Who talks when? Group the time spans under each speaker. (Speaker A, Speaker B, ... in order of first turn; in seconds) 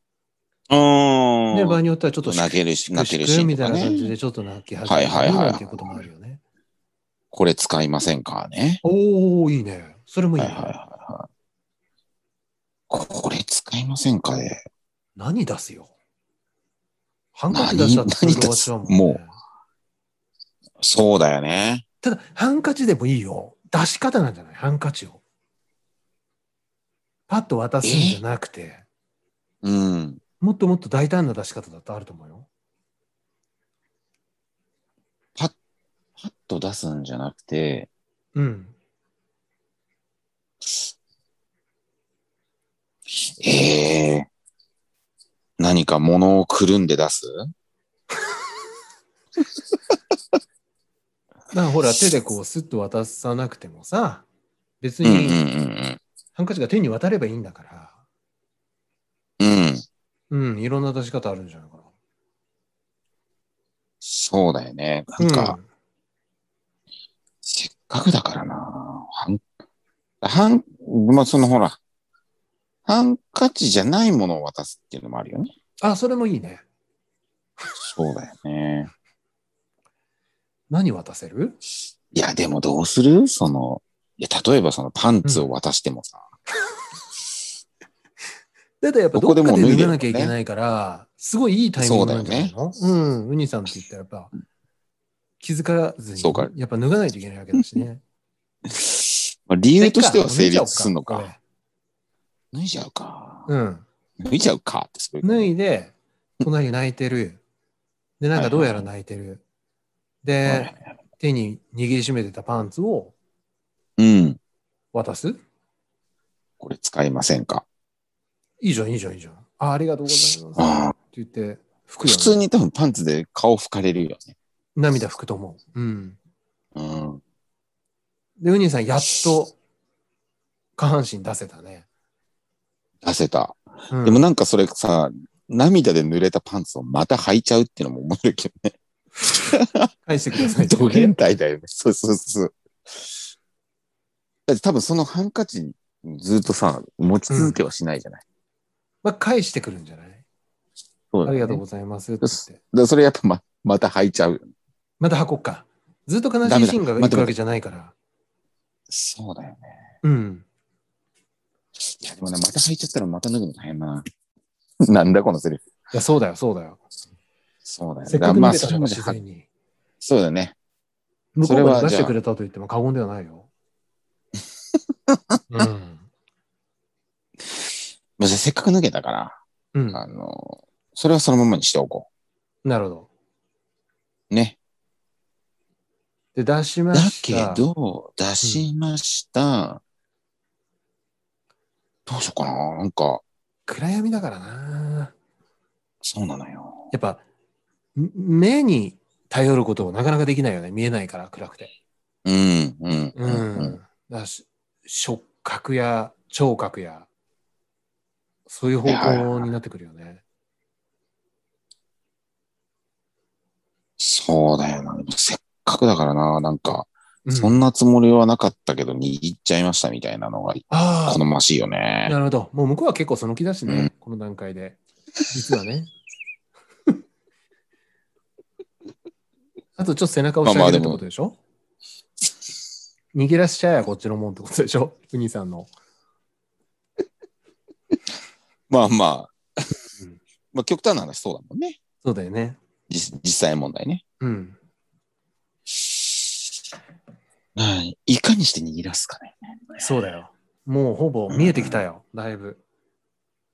Speaker A: 0.7-4.1, 4.8-6.1, 7.3-8.8, 10.4-11.3, 12.9-14.6, 17.5-19.2, 20.8-21.9, 27.8-28.2, 29.6-30.2, 36.2-37.9, 43.4-44.3, 45.6-47.5, 55.0-56.0, 59.4-59.8, 64.0-65.6, 67.4-69.4, 70.2-71.8, 72.9-75.5, 77.8-78.9, 82.1-86.2, 89.1-90.3, 91.8-92.5, 96.2-96.5, 98.7-101.3, 102.5-103.5, 104.2-105.5, 108.4-108.9, 110.4-110.9, 114.0-114.4, 116.6-117.7, 120.6-121.0, 122.0-124.3, 126.8-127.2, 133.0-143.1, 144.5-148.2, 151.1-151.6, 152.2-154.5, 156.4-157.3, 158.9-159.7, 161.8-164.1, 164.8-165.7, 167.7-169.2, 170.0-170.6, 171.4-172.2, 175.1-175.7, 177.5-179.4, 179.9-182.1, 184.3-184.6, 186.9-189.8, 192.1-193.2, 196.0-196.9, 202.2-203.8, 208.8-209.5, 214.0-222.2, 230.4-231.1, 238.7-239.7, 240.5-241.8, 242.9-244.0, 245.8-246.2, 247.6-249.9, 251.3-251.8
Speaker B: 1.5-6.4, 8.8-10.7, 15.2-15.9, 17.4-19.4, 22.0-25.2, 27.3-28.8, 30.4-32.5, 38.4-38.7, 51.5-54.3, 54.8-55.4, 56.4-58.0, 60.3-61.9, 65.2-65.7, 75.8-76.6, 80.7-81.6, 88.8-94.3, 95.4-98.0, 99.8-101.4, 103.5-103.8, 105.2-107.4, 108.2-109.4, 110.2-113.1, 114.9-115.4, 118.6-122.4, 124.8-126.2, 128.4-129.6, 130.8-131.8, 133.9-134.3, 140.1-141.1, 147.3-147.6, 149.0-150.2, 151.3-152.6, 155.0-157.9, 160.0-160.4, 165.9-166.8, 168.1-169.5, 171.4-173.5, 175.5-176.1, 179.7-180.0, 182.6-183.1, 186.3-187.6, 188.4-188.7, 193.7-195.1, 196.9-197.2, 197.9-201.7, 203.2-207.1, 208.5-210.2, 217.2-217.6, 220.7-221.2, 222.1-225.9, 229.8-231.4, 233.1-235.7, 242.0-242.6, 244.2-244.6, 249.8-252.6